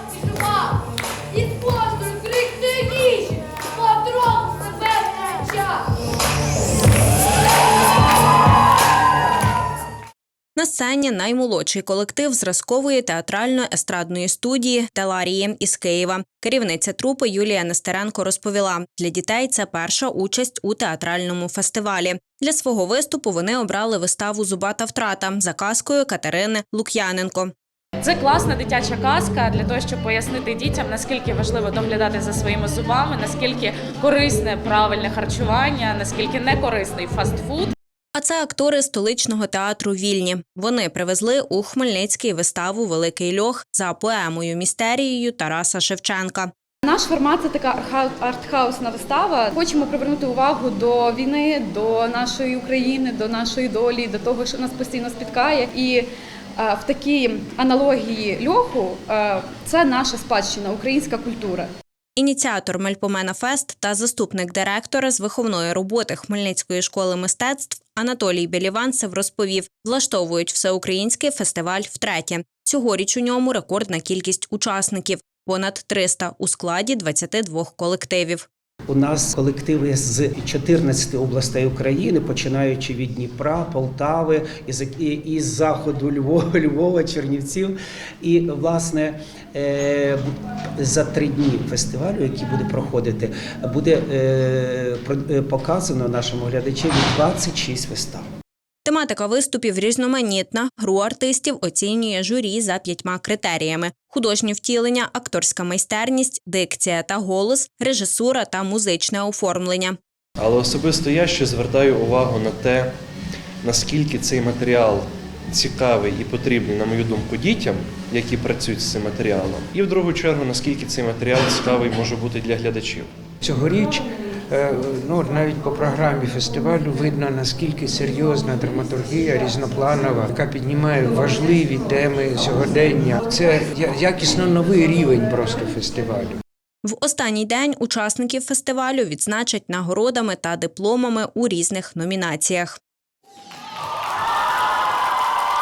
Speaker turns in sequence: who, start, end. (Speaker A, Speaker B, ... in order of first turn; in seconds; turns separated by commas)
Speaker A: 1.5-5.3, Speaker B: 10.6-27.5, Speaker C: 28.0-37.7, Speaker B: 38.1-46.5, Speaker A: 46.8-56.0, Speaker A: 56.6-61.7, Speaker B: 62.1-78.5, Speaker D: 78.9-90.3, Speaker D: 90.8-98.2, Speaker B: 98.8-110.0, Speaker E: 110.4-112.9, Speaker E: 113.6-123.1, Speaker F: 123.4-136.4, Speaker B: 136.8-142.8